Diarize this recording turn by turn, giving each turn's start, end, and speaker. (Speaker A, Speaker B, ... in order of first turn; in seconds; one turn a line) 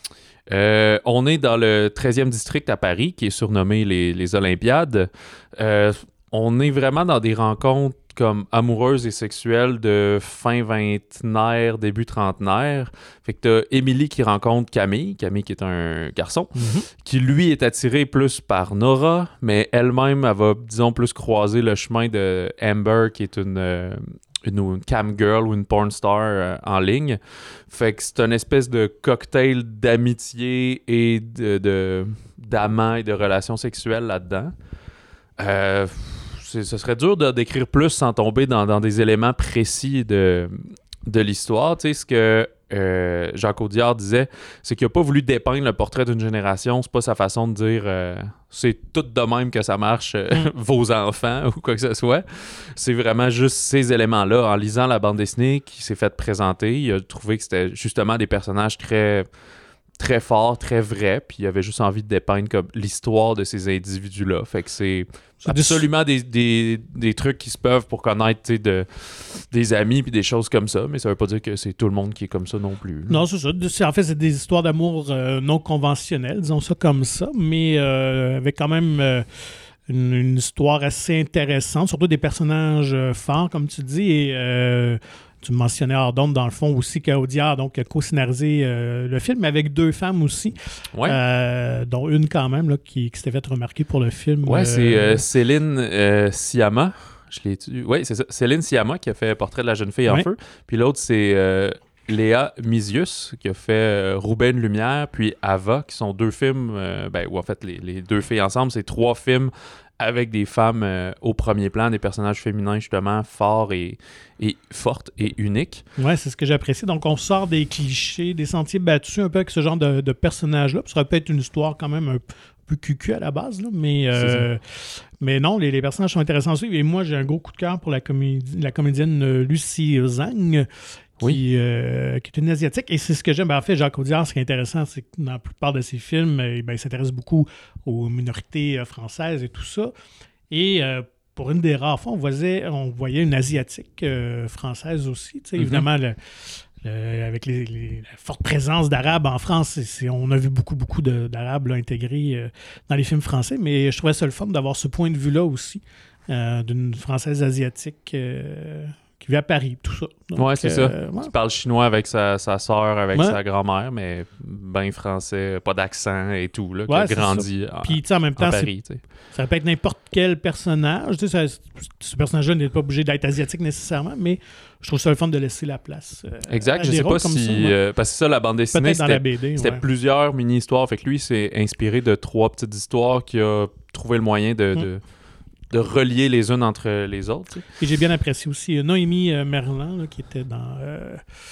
Speaker A: 0.5-34.5
Speaker B: 16.5-16.9
Speaker A: 35.4-59.3
Speaker A: 60.0-73.2
Speaker B: 65.4-65.8
Speaker B: 73.1-79.2
Speaker B: 79.9-95.2
Speaker A: 90.9-91.2
Speaker A: 94.5-115.8
Speaker B: 116.0-130.7
Speaker A: 124.2-124.5
Speaker B: 131.2-139.9
Speaker B: 140.5-161.3
Speaker A: 145.6-145.8
Speaker A: 160.3-169.0
Speaker B: 166.9-168.7
Speaker B: 169.3-177.8
Speaker A: 176.5-185.0
Speaker B: 178.7-179.8
Speaker A: 185.7-187.7
Speaker B: 187.8-191.2